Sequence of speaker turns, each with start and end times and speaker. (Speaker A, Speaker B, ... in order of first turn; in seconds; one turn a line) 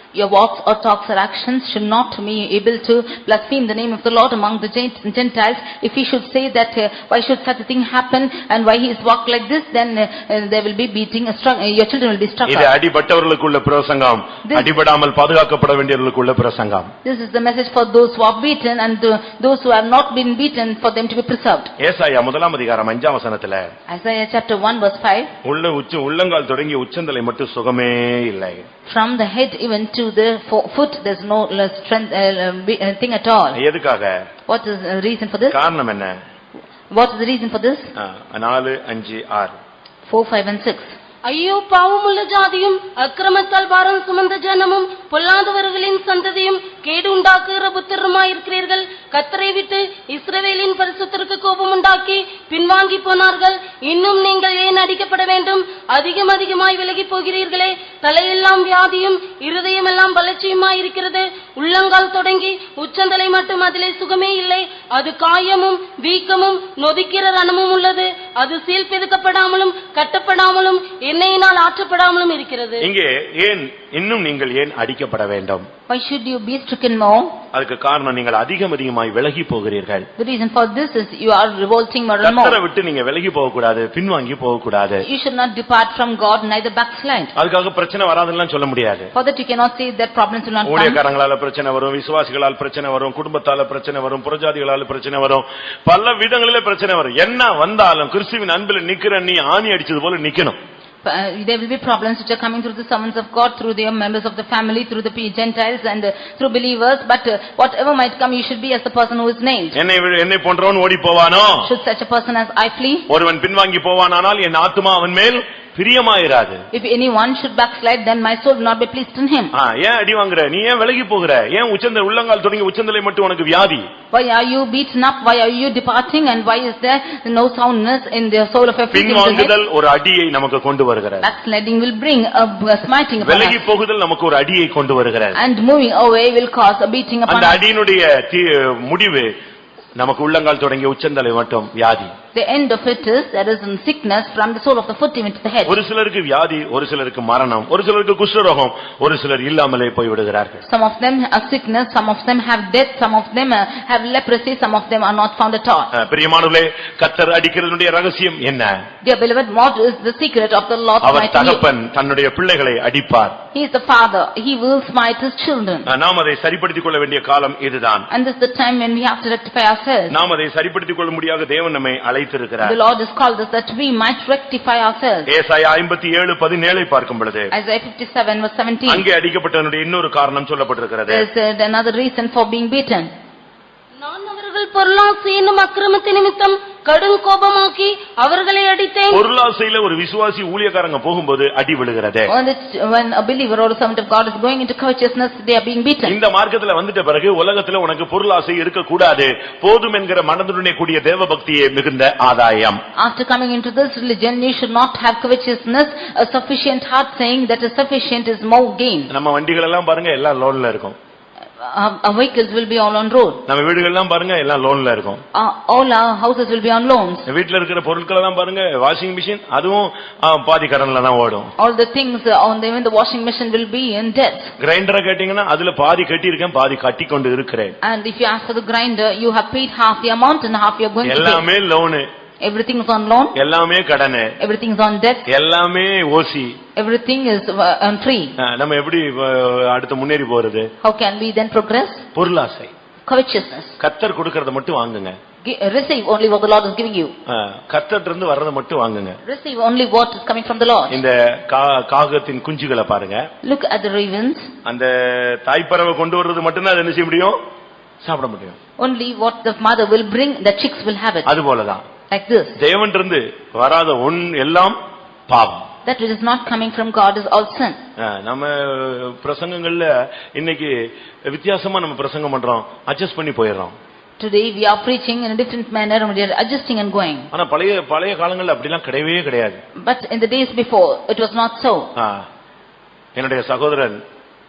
Speaker A: 0.1-12.7
Speaker B: 12.5-16.9
Speaker A: 14.4-14.7
Speaker A: 17.0-21.7
Speaker B: 21.8-23.7
Speaker A: 23.9-25.3
Speaker B: 25.4-28.6
Speaker A: 28.9-33.6
Speaker B: 33.5-34.2
Speaker A: 34.5-35.5
Speaker B: 35.5-36.2
Speaker A: 36.9-37.9
Speaker B: 38.0-39.6
Speaker A: 40.1-40.9
Speaker C: 41.3-72.9
Speaker B: 72.8-75.7
Speaker A: 75.9-77.4
Speaker B: 77.5-80.1
Speaker A: 80.2-82.6
Speaker B: 82.2-85.0
Speaker A: 85.0-87.3
Speaker B: 87.4-89.1
Speaker A: 89.1-91.0
Speaker B: 90.7-100.6
Speaker A: 101.0-109.8
Speaker B: 109.7-111.7
Speaker A: 111.6-113.1
Speaker B: 113.1-116.6
Speaker A: 116.7-119.5
Speaker B: 119.5-123.9
Speaker A: 124.1-129.5
Speaker B: 128.9-131.3
Speaker A: 131.2-133.6
Speaker B: 133.2-135.4
Speaker A: 135.3-137.6
Speaker B: 137.3-139.3
Speaker B: 140.0-142.1
Speaker A: 142.3-145.8
Speaker B: 145.7-150.6
Speaker A: 150.6-155.9
Speaker B: 155.9-158.8
Speaker A: 159.0-161.6
Speaker B: 161.0-163.4
Speaker A: 163.5-165.9
Speaker B: 165.9-168.1
Speaker A: 168.1-170.1
Speaker B: 170.1-172.8
Speaker A: 172.6-175.3
Speaker B: 175.3-177.5
Speaker A: 177.6-179.0
Speaker B: 178.9-181.3
Speaker A: 181.1-183.1
Speaker C: 184.0-189.2
Speaker B: 189.1-192.3
Speaker A: 192.3-196.1
Speaker B: 196.1-202.8
Speaker A: 203.0-209.1
Speaker B: 209.1-211.0
Speaker A: 211.6-213.4
Speaker B: 213.5-215.2
Speaker A: 215.3-217.3
Speaker B: 217.3-221.5
Speaker A: 221.6-224.5
Speaker B: 224.6-227.8
Speaker A: 227.8-231.4
Speaker B: 231.0-232.1
Speaker A: 232.4-233.4
Speaker B: 233.3-234.3
Speaker A: 234.4-235.3
Speaker B: 235.3-236.6
Speaker A: 236.8-238.4
Speaker B: 238.4-240.7
Speaker A: 240.8-242.1
Speaker B: 242.2-242.7
Speaker A: 243.1-243.7
Speaker B: 243.8-245.2
Speaker A: 245.4-247.2
Speaker B: 247.3-249.2
Speaker A: 249.2-251.0
Speaker B: 250.9-253.3
Speaker A: 253.4-254.5
Speaker B: 254.7-257.4
Speaker B: 258.0-258.6
Speaker A: 258.8-261.3
Speaker B: 261.3-261.8
Speaker A: 262.1-262.6
Speaker B: 262.6-264.8
Speaker B: 265.3-265.7
Speaker A: 265.9-267.8
Speaker B: 268.0-270.7
Speaker B: 271.3-273.8
Speaker A: 274.2-277.3
Speaker B: 277.3-279.6
Speaker A: 279.8-281.9
Speaker B: 282.0-282.3
Speaker B: 283.2-284.0